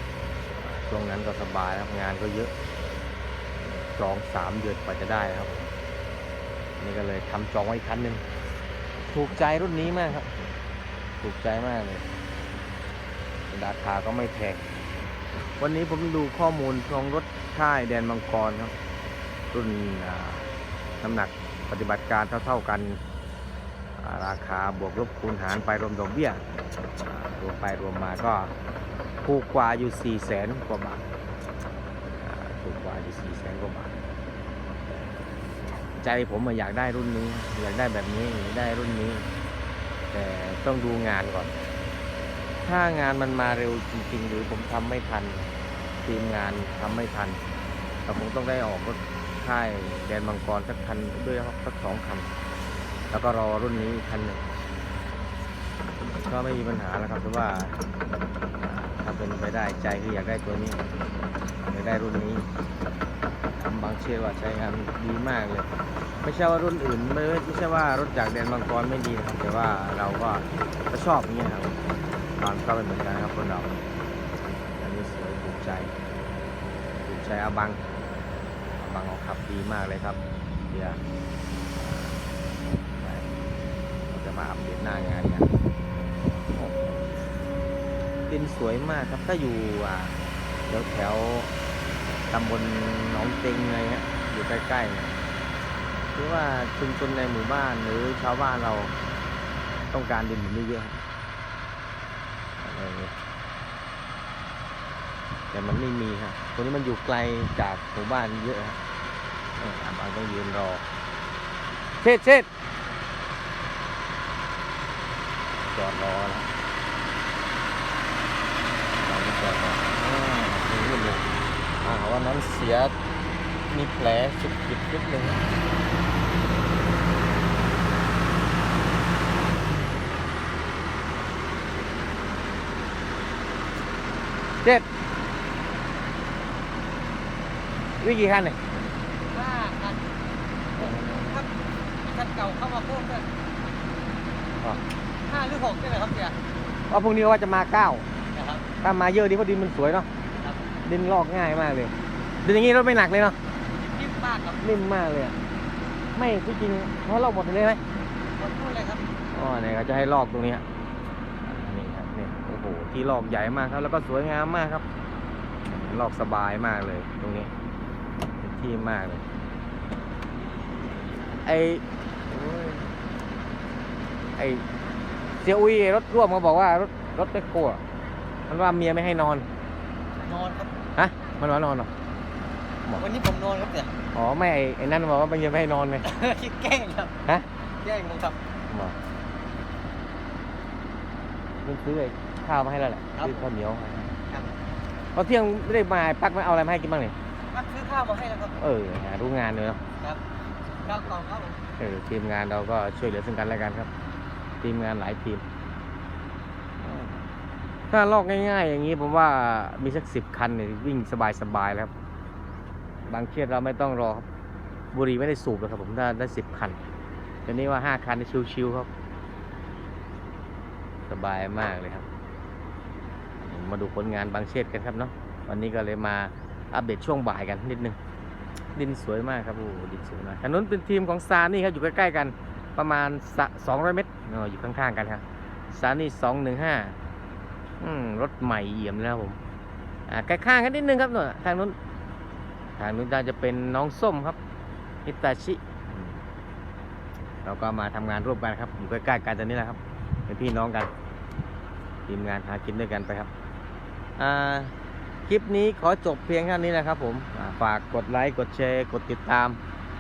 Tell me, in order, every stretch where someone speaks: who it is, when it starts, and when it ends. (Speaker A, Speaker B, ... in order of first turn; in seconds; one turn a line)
Speaker A: 0.6-2.5
Speaker A: 3.6-5.7
Speaker A: 6.8-8.2
Speaker A: 9.1-10.3
Speaker A: 11.2-12.0
Speaker A: 13.5-14.6
Speaker A: 15.6-18.7
Speaker A: 19.5-20.5
Speaker A: 21.0-23.0
Speaker A: 24.0-26.4
Speaker A: 27.1-28.5
Speaker A: 29.2-31.0
Speaker A: 32.2-33.9
Speaker A: 36.0-39.3
Speaker A: 40.1-41.5
Speaker A: 42.6-45.5
Speaker A: 46.0-47.4
Speaker A: 48.1-52.3
Speaker A: 53.1-54.4
Speaker A: 56.0-57.8
Speaker A: 58.6-60.8
Speaker A: 61.7-62.5
Speaker A: 63.6-65.7
Speaker A: 66.2-71.8
Speaker A: 72.4-73.8
Speaker A: 74.8-75.9
Speaker A: 77.0-77.8
Speaker A: 78.8-80.2
Speaker A: 80.7-81.0
Speaker A: 81.8-82.2
Speaker A: 83.0-83.3
Speaker A: 84.1-85.5
Speaker A: 86.5-87.0
Speaker A: 88.3-90.2
Speaker A: 90.7-91.5
Speaker A: 92.3-95.1
Speaker A: 96.1-98.9
Speaker A: 99.9-101.0
Speaker A: 102.6-103.1
Speaker A: 105.5-108.8
Speaker A: 109.6-110.8
Speaker A: 112.0-112.5
Speaker A: 115.6-116.5
Speaker A: 119.0-121.3
Speaker A: 121.8-123.0
Speaker A: 123.7-125.5
Speaker A: 138.0-138.6
Speaker B: 139.3-140.1
Speaker B: 140.7-141.5
Speaker A: 140.8-141.3
Speaker B: 142.0-143.3
Speaker B: 145.2-146.4
Speaker A: 146.9-148.1
Speaker B: 148.3-148.7
Speaker A: 148.8-150.1
Speaker B: 150.4-150.7
Speaker A: 150.8-151.9
Speaker A: 152.4-153.4
Speaker B: 153.7-154.6
Speaker A: 154.6-155.4
Speaker A: 156.2-157.8
Speaker B: 158.4-159.0
Speaker A: 159.3-160.6
Speaker A: 161.4-164.8
Speaker A: 165.7-167.5
Speaker A: 168.4-169.2
Speaker A: 171.4-172.9
Speaker A: 174.4-174.7
Speaker A: 175.4-177.8
Speaker A: 178.5-179.5
Speaker B: 180.2-180.7
Speaker A: 181.0-181.9
Speaker B: 183.0-183.9
Speaker A: 184.1-186.1
Speaker B: 186.0-187.2
Speaker B: 187.8-188.4
Speaker A: 188.7-189.0
Speaker A: 191.6-194.1
Speaker B: 193.2-193.4
Speaker B: 194.3-194.6
Speaker A: 195.1-197.2
Speaker B: 197.5-198.6
Speaker A: 198.6-199.8
Speaker B: 200.8-201.6
Speaker A: 201.8-203.9
Speaker A: 204.6-205.4
Speaker A: 206.8-207.2
Speaker A: 207.9-211.9
Speaker A: 213.1-214.2
Speaker A: 214.9-216.8
Speaker A: 217.5-218.9
Speaker A: 221.1-222.1
Speaker A: 223.4-228.0
Speaker A: 228.8-237.0
Speaker A: 237.8-239.4
Speaker A: 240.1-241.8
Speaker A: 242.8-244.4
Speaker A: 245.1-246.2
Speaker A: 247.4-250.9
Speaker A: 252.1-253.3
Speaker A: 254.2-254.7
Speaker A: 255.3-259.6